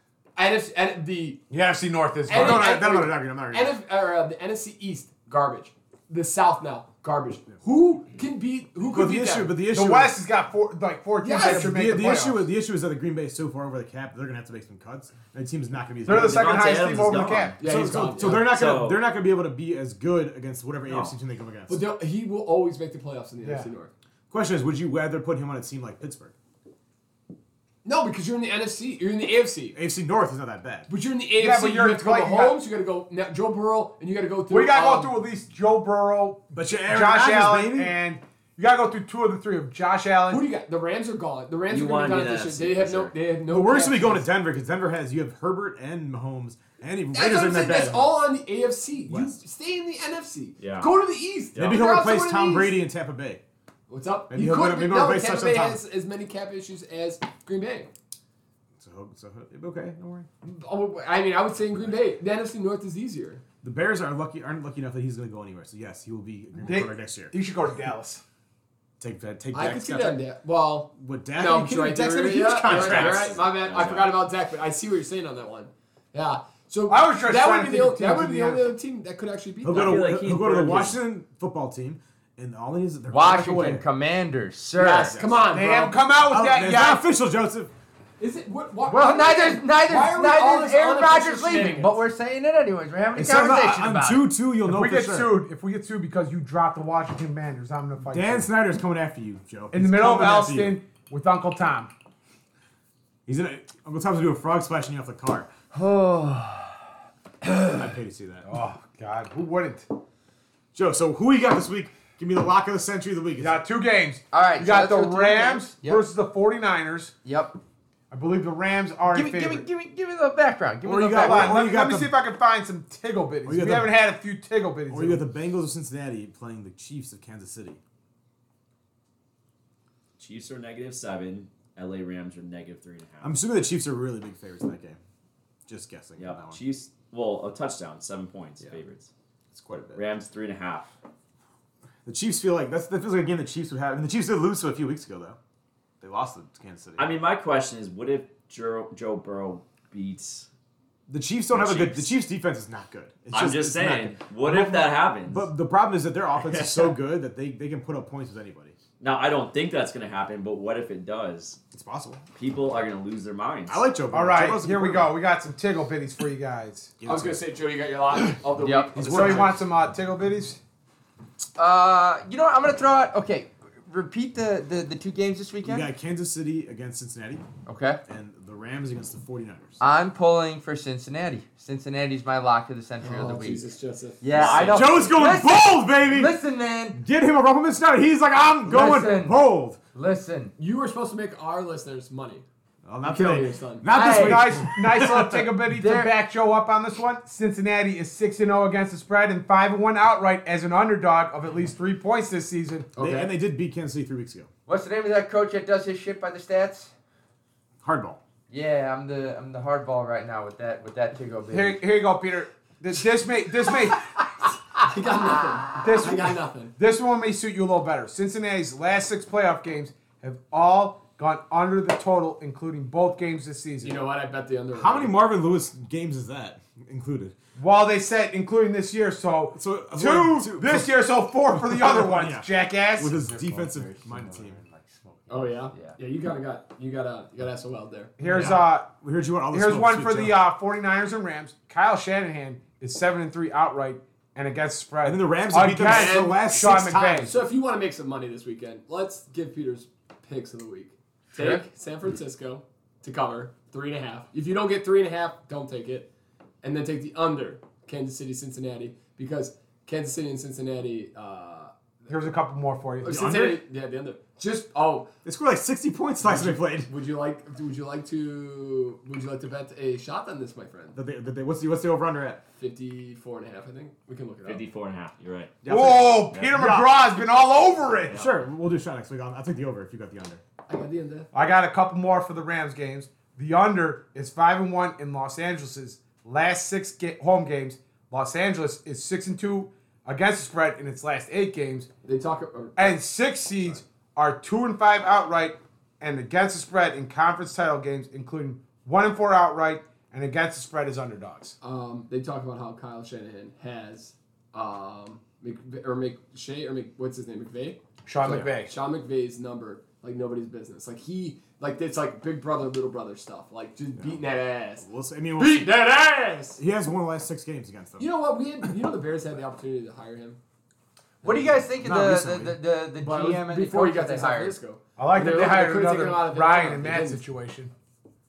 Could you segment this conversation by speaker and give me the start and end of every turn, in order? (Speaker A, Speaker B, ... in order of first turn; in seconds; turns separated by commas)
Speaker A: 0.4-1.4, Speaker B: 1.5-2.8, Speaker C: 2.3-3.8, Speaker A: 2.3-9.6, Speaker C: 8.8-10.2, Speaker B: 9.7-12.5, Speaker A: 11.2-11.8, Speaker C: 11.3-21.8, Speaker B: 16.1-17.6, Speaker D: 16.1-17.6, Speaker A: 17.6-18.6, Speaker D: 18.1-19.0, Speaker D: 20.9-21.1, Speaker A: 21.7-23.9, Speaker B: 23.4-23.7, Speaker C: 24.3-26.3, Speaker A: 27.8-29.8, Speaker C: 29.7-30.9, Speaker A: 30.9-35.1, Speaker B: 31.4-32.6, Speaker B: 34.5-40.5, Speaker C: 36.5-37.9, Speaker A: 40.3-44.3, Speaker D: 41.7-43.1, Speaker C: 43.5-48.1, Speaker A: 47.1-52.8, Speaker C: 49.1-49.4, Speaker D: 50.6-50.9, Speaker C: 51.5-53.4, Speaker A: 53.9-57.9, Speaker C: 54.3-55.8, Speaker C: 58.8-60.3, Speaker A: 60.4-63.4, Speaker C: 63.6-67.3, Speaker B: 66.6-68.2, Speaker C: 69.0-70.2, Speaker A: 69.5-80.1, Speaker C: 70.9-73.4, Speaker D: 72.6-74.2, Speaker B: 76.9-78.7, Speaker C: 79.6-83.8, Speaker D: 79.7-81.0, Speaker E: 83.1-85.2, Speaker A: 84.8-86.1, Speaker C: 85.0-85.5, Speaker B: 85.5-87.0, Speaker C: 86.3-87.7, Speaker A: 88.2-92.0, Speaker E: 88.9-94.3, Speaker C: 93.1-95.4, Speaker B: 94.6-98.5, Speaker C: 98.1-100.8, Speaker B: 99.7-101.9, Speaker C: 103.3-105.5, Speaker E: 105.7-106.8, Speaker E: 107.4-107.8, Speaker C: 107.7-108.5, Speaker B: 108.5-109.9, Speaker C: 110.7-113.6, Speaker B: 113.4-117.1, Speaker E: 114.3-116.0, Speaker E: 117.2-117.6, Speaker B: 118.1-119.6, Speaker E: 119.1-121.6, Speaker C: 120.8-122.1, Speaker B: 121.2-125.2, Speaker C: 123.5-123.9, Speaker C: 124.9-127.8, Speaker D: 130.2-133.3, Speaker C: 133.2-135.0, Speaker C: 135.7-136.6, Speaker D: 136.2-139.1, Speaker C: 139.5-140.0, Speaker D: 139.9-140.9, Speaker C: 142.1-145.4, Speaker C: 146.0-147.1, Speaker D: 147.0-150.5, Speaker C: 151.1-158.7, Speaker D: 151.5-152.1, Speaker D: 153.3-155.5, Speaker D: 156.4-156.9, Speaker D: 159.0-161.6, Speaker C: 161.7-162.2, Speaker D: 162.3-163.9, Speaker C: 163.7-165.1, Speaker B: 164.1-166.9, Speaker C: 167.0-167.4, Speaker A: 167.1-169.6, Speaker C: 168.1-168.4, Speaker E: 168.6-168.9, Speaker C: 168.9-169.5, Speaker B: 169.0-170.6, Speaker E: 171.6-175.9, Speaker C: 175.6-177.4, Speaker E: 177.7-178.0, Speaker C: 178.1-179.8, Speaker E: 179.8-183.7, Speaker A: 183.0-184.6, Speaker E: 184.2-187.0, Speaker D: 184.3-185.0, Speaker C: 184.4-186.4, Speaker C: 186.9-189.8, Speaker E: 188.6-190.5, Speaker A: 190.6-192.4, Speaker C: 192.8-195.5, Speaker A: 193.0-193.9, Speaker E: 193.9-194.6, Speaker B: 194.1-202.9, Speaker E: 195.7-196.1, Speaker A: 202.9-203.3, Speaker C: 202.9-204.5, Speaker E: 204.7-206.9, Speaker C: 207.8-208.2, Speaker E: 208.5-211.8, Speaker B: 211.5-214.1, Speaker A: 214.8-216.7, Speaker B: 215.8-224.1, Speaker A: 223.8-225.3, Speaker C: 224.7-227.3, Speaker B: 227.6-233.1, Speaker C: 229.5-234.6, Speaker E: 233.1-236.0, Speaker A: 235.3-238.6, Speaker B: 238.2-238.9, Speaker C: 238.3-240.4, Speaker B: 239.5-247.3, Speaker C: 245.1-247.4, Speaker A: 245.8-246.4, Speaker A: 247.2-256.1, Speaker E: 251.3-251.6, Speaker A: 256.6-261.7, Speaker B: 262.1-263.4, Speaker A: 263.0-265.1, Speaker C: 263.1-263.6, Speaker C: 265.2-266.9, Speaker A: 266.2-271.0, Speaker C: 270.9-272.4, Speaker A: 272.6-274.6, Speaker D: 274.4-275.6, Speaker C: 275.6-277.0, Speaker B: 275.7-278.2, Speaker D: 276.2-276.5, Speaker D: 278.1-278.3, Speaker C: 278.1-280.4, Speaker A: 280.7-281.3, Speaker B: 281.3-291.9, Speaker A: 292.1-293.0, Speaker B: 292.8-301.6, Speaker A: 301.6-316.6, Speaker B: 308.1-308.7, Speaker C: 314.0-314.2, Speaker C: 314.8-315.9, Speaker C: 316.6-318.1, Speaker A: 318.0-320.4, Speaker E: 321.2-324.6, Speaker C: 321.3-322.6, Speaker A: 323.0-327.2, Speaker B: 325.0-327.7